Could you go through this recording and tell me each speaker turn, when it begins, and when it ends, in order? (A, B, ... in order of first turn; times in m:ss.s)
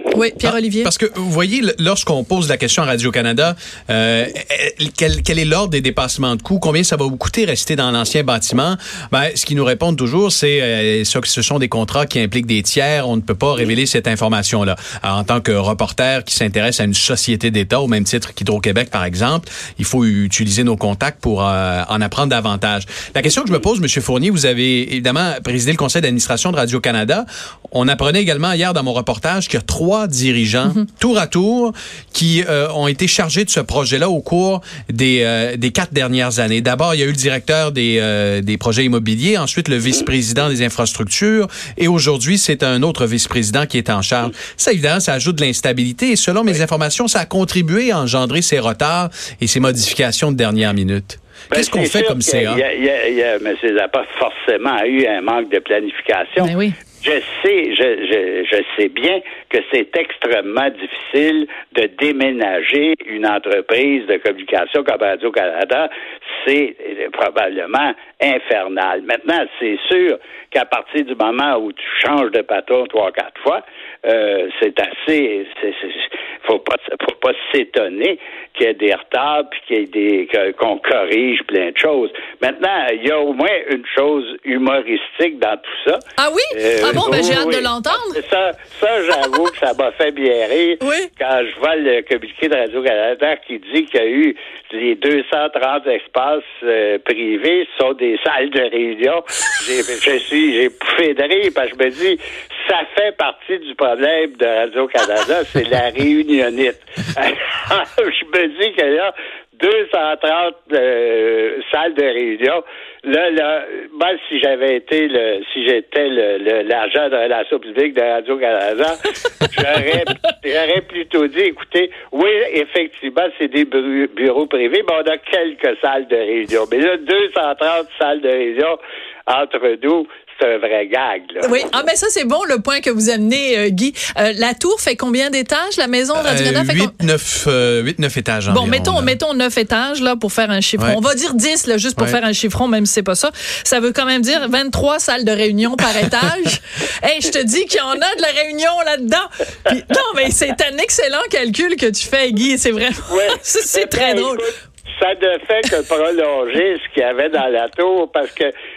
0:00.1-0:00.9 A
0:00.4-0:52.6 B
0:51.5-1:26.0 C
0:56.4-0:56.8 A
1:26.2-1:28.2 A
1:26.5-2:08.8 C
1:30.8-1:31.1 A
2:09.3-2:11.6 C
2:11.4-2:16.9 A
2:16.2-2:19.2 B
2:18.5-2:34.4 A
2:33.1-2:38.5 C